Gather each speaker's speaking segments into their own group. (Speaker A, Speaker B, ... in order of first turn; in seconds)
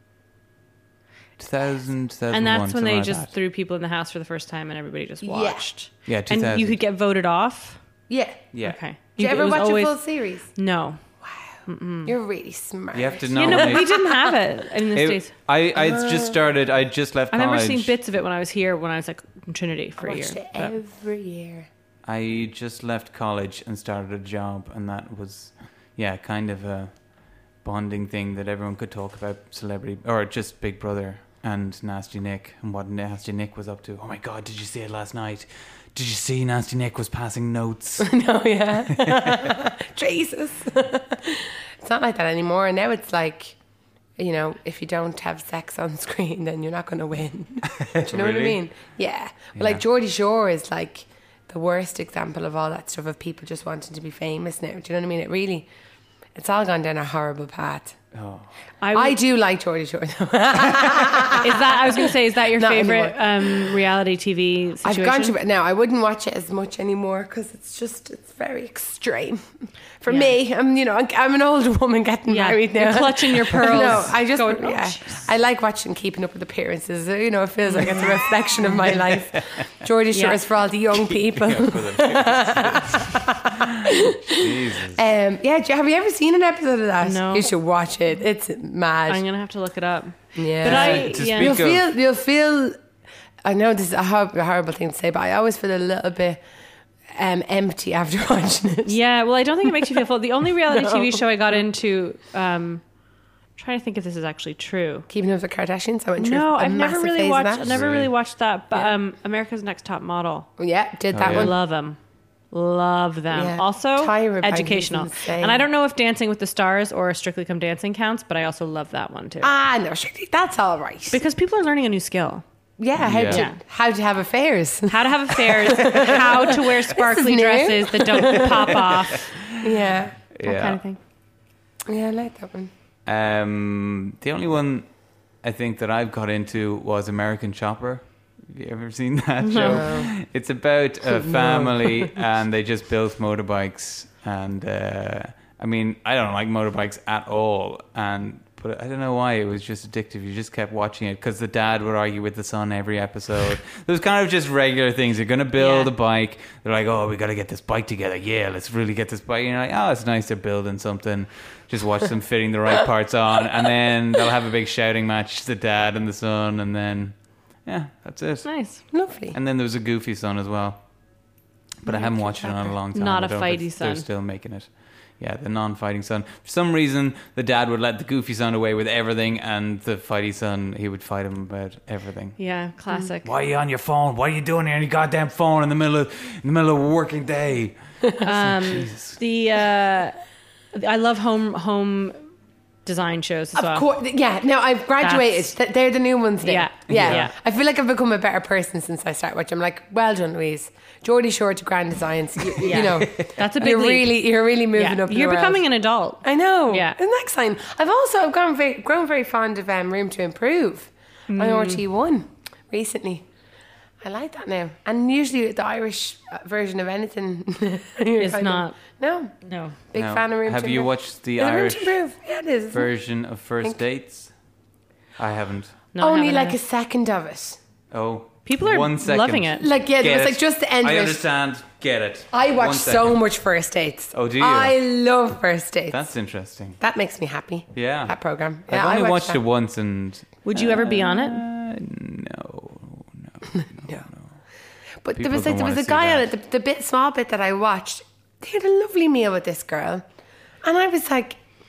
Speaker A: 1.4-3.3, 6.0-6.7, 8.5-8.8, 12.9-13.9, 14.9-17.9, 22.1-38.1, 38.9-39.5, 47.7-48.6, 49.6-49.8, 58.1-58.5, 79.0-79.6, 80.9-85.0, 90.6-91.8, 107.6-108.1, 111.1-111.5, 123.0-123.4, 128.7-129.8, 130.3-130.8, 133.1-168.5, 169.3-170.8, 171.8-182.4, 183.2-189.2, 196.9-197.3, 203.0-203.3, 219.9-222.0, 222.7-224.3, 225.2-225.8, 227.9-233.2, 234.1-234.8, 235.9-236.8, 237.7-238.2, 238.7-244.3, 245.1-246.3
Speaker B: 2.3-7.8, 8.6-10.0, 10.5-11.0, 11.7-12.1, 13.3-15.3, 17.3-20.7, 58.8-59.2, 61.4-65.3, 70.1-70.3, 72.3-75.3, 80.1-80.4, 87.0-87.5, 89.1-91.6, 98.8-102.8, 103.6-105.0, 106.2-110.5, 111.2-112.0, 112.5-119.5, 121.1-122.4, 123.3-123.6, 124.9-129.3, 130.4-131.0, 139.4-139.8, 155.6-155.9, 168.4-168.8, 172.0-174.1, 182.4-183.3, 188.2-190.2, 190.7-192.2, 192.8-193.8, 195.0-195.5, 196.4-197.3, 202.6-204.2, 204.7-207.0, 211.3-211.8, 218.2-218.8, 219.4-219.8, 225.9-226.6, 228.4-229.6, 240.4-241.4
Speaker C: 5.2-5.7, 8.1-8.5, 9.1-10.5, 11.2-14.3, 15.7-16.4, 20.0-21.7, 38.0-43.5, 44.2-55.6, 56.3-58.0, 58.9-63.7, 64.8-69.4, 70.0-89.2, 90.3-92.8, 93.4-96.4, 97.1-99.0, 99.7-100.0, 100.7-101.2, 105.1-107.8, 110.6-111.5, 113.3-115.6, 119.4-121.2, 122.8-129.0, 129.6-130.2, 131.9-132.7, 139.5-140.1, 141.1-142.1, 168.9-169.3, 171.9-172.5, 193.5-205.7, 206.2-213.2, 214.0-219.3, 219.9-222.9, 226.0-227.6, 229.6-231.2, 232.3-236.1, 236.8-239.4, 243.6-244.1, 245.0-250.0, 250.6-251.4